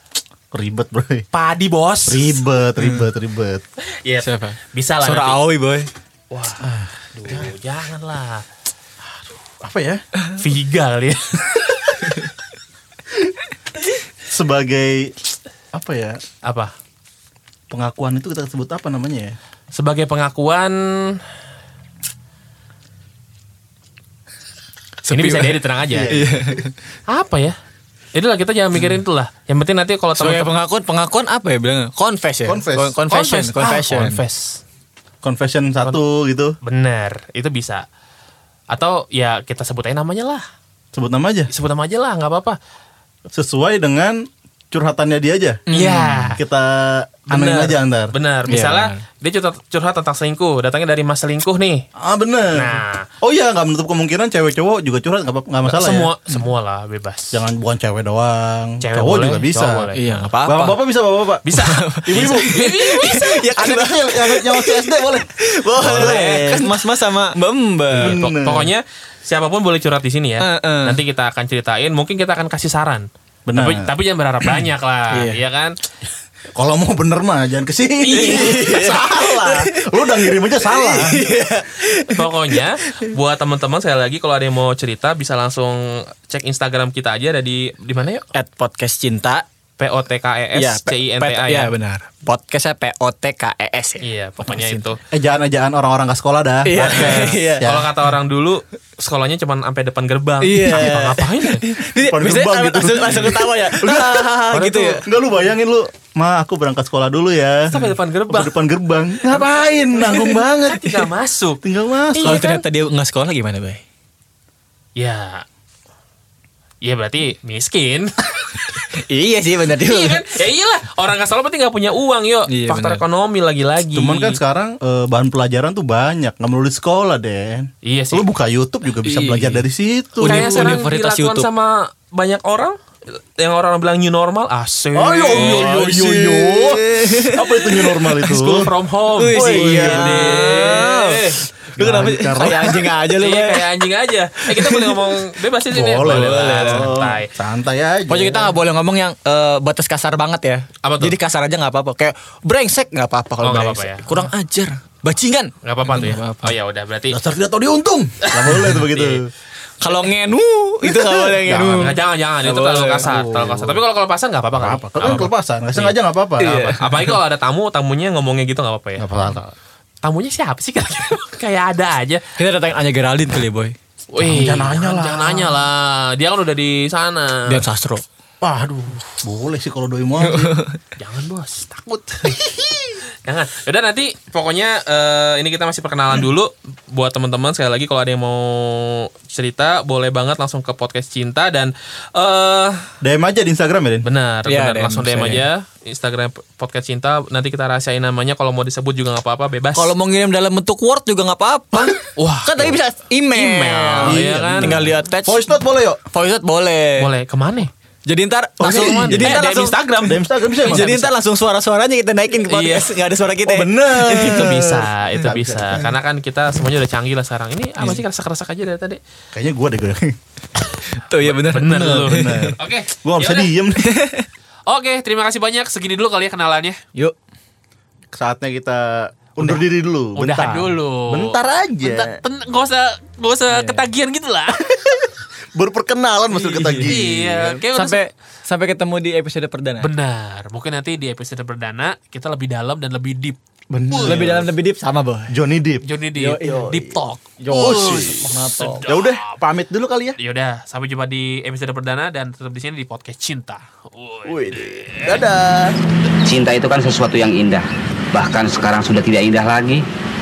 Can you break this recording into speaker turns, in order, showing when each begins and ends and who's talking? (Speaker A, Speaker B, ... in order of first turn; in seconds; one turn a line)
Speaker A: 0.5-1.3
Speaker B: 1.3-2.4
Speaker A: 2.1-3.6
Speaker C: 2.8-3.0
Speaker B: 4.0-5.4
Speaker C: 4.2-5.9
Speaker B: 6.3-8.4
Speaker A: 6.6-6.9
Speaker A: 9.6-10.0
Speaker B: 10.4-12.1
Speaker A: 14.3-15.1
Speaker A: 15.7-16.2
Speaker B: 16.4-16.7
Speaker A: 17.7-19.4
Speaker B: 19.7-21.2
Speaker B: 25.0-26.2
Speaker C: 25.1-25.6
Speaker A: 25.9-26.6
Speaker C: 26.1-26.7
Speaker B: 27.1-27.6
Speaker B: 28.1-30.5
Speaker C: 30.2-34.2
Speaker A: 32.5-33.0
Speaker B: 33.1-34.6
Speaker A: 35.2-36.6
Speaker B: 36.6-37.8
Speaker B: 38.7-40.4
Speaker A: 40.9-41.5
Speaker B: 41.5-42.6
Speaker A: 43.3-45.6
Speaker C: 45.7-46.4
Speaker B: 45.7-46.4
Speaker A: 46.4-48.1
Speaker B: 47.3-51.8
Speaker C: 48.5-49.0
Speaker A: 52.0-56.1
Speaker B: 52.5-53.1
Speaker B: 55.6-57.4
Speaker A: 57.3-59.9
Speaker B: 58.8-60.3
Speaker C: 59.9-60.8
Speaker A: 60.5-61.5
Speaker B: 61.4-63.5
Speaker C: 61.6-68.3
Speaker A: 62.1-62.6
Speaker A: 63.4-66.7
Speaker B: 65.8-66.7
Speaker A: 67.9-68.7
Speaker B: 68.0-75.8
Speaker C: 70.4-71.0
Speaker A: 73.5-73.9
Speaker C: 75.1-75.4
Speaker A: 76.5-81.2
Speaker B: 78.0-79.2
Speaker C: 78.1-79.7
Speaker C: 80.5-82.3
Speaker B: 82.1-88.3
Speaker C: 88.3-89.5
Speaker B: 89.8-91.7
Speaker C: 90.5-94.9
Speaker B: 94.0-95.0
Speaker A: 95.1-97.9
Speaker C: 96.7-97.7
Speaker B: 96.7-101.7
Speaker C: 100.4-105.0
Speaker A: 102.0-104.3
Speaker B: 104.5-105.0
Speaker A: 105.0-111.1
Speaker B: 107.7-108.6
Speaker B: 109.3-111.6
Speaker A: 111.6-112.4
Speaker B: 112.1-112.6
Speaker C: 112.2-113.8
Speaker B: 115.0-115.4
Speaker B: 116.8-118.8
Speaker C: 119.0-120.2
Speaker B: 119.8-124.4
Speaker C: 122.5-123.0
Speaker A: 123.9-130.8
Speaker B: 127.8-128.3
Speaker C: 129.0-129.6
Speaker C: 130.2-131.5
Speaker B: 130.2-135.8
Speaker A: 134.9-138.7
Speaker C: 135.3-138.3
Speaker B: 138.3-142.1
Speaker C: 139.2-143.7
Speaker A: 139.3-140.7
Speaker A: 141.8-142.9
Speaker B: 143.2-147.3
Speaker C: 144.5-145.0
Speaker A: 145.7-148.6
Speaker C: 146.0-146.9
Speaker C: 148.1-156.6
Speaker B: 150.8-151.2
Speaker B: 153.4-154.1
Speaker B: 155.6-157.2
Speaker A: 157.1-159.3
Speaker B: 158.2-159.2
Speaker C: 159.8-163.1
Speaker A: 161.3-161.8
Speaker B: 161.4-169.5
Speaker A: 163.0-163.8
Speaker A: 164.6-166.5
Speaker C: 166.4-167.2
Speaker A: 169.0-169.4
Speaker B: 170.0-172.2
Speaker C: 172.4-173.8
Speaker B: 174.1-177.6
Speaker A: 174.2-175.7
Speaker C: 177.5-178.0
Speaker A: 178.4-180.6
Speaker C: 180.2-180.8
Speaker B: 181.0-182.4
Speaker A: 182.3-182.7
Speaker B: 183.2-192.9
Speaker A: 193.0-194.1
Speaker B: 194.0-199.9
Speaker C: 194.5-195.5
Speaker C: 199.7-205.4
Speaker B: 202.2-202.8
Speaker B: 203.3-204.8
Speaker A: 204.1-206.0
Speaker C: 206.1-207.1
Speaker B: 207.0-207.7
Speaker C: 208.1-209.8
Speaker A: 208.6-209.4
Speaker B: 208.7-211.1
Speaker A: 210.0-210.9
Speaker C: 210.7-214.7
Speaker B: 212.5-212.9
Speaker A: 213.4-215.6
Speaker B: 214.2-219.0
Speaker A: 219.3-220.2
Speaker C: 220.9-222.6
Speaker B: 221.2-223.5
Speaker A: 222.1-223.9
Speaker C: 223.8-224.3
Speaker B: 224.7-226.8
Speaker A: 228.1-232.2
Speaker B: 230.2-234.7
Speaker C: 233.5-233.8
Speaker A: 235.6-237.6
Speaker C: 236.3-237.0
Speaker B: 236.8-238.0
Speaker C: 237.7-239.9
Speaker B: 239.8-244.2
Speaker A: 243.7-244.5
Speaker C: 244.1-245.3
Speaker A: 245.3-245.8
Speaker B: 245.8-248.0
Speaker C: 246.2-248.9
Speaker A: 247.5-250.2
Speaker B: 248.6-249.3
Speaker B: 250.2-255.2
Speaker A: 254.3-255.7
Speaker D: 256.2-259.9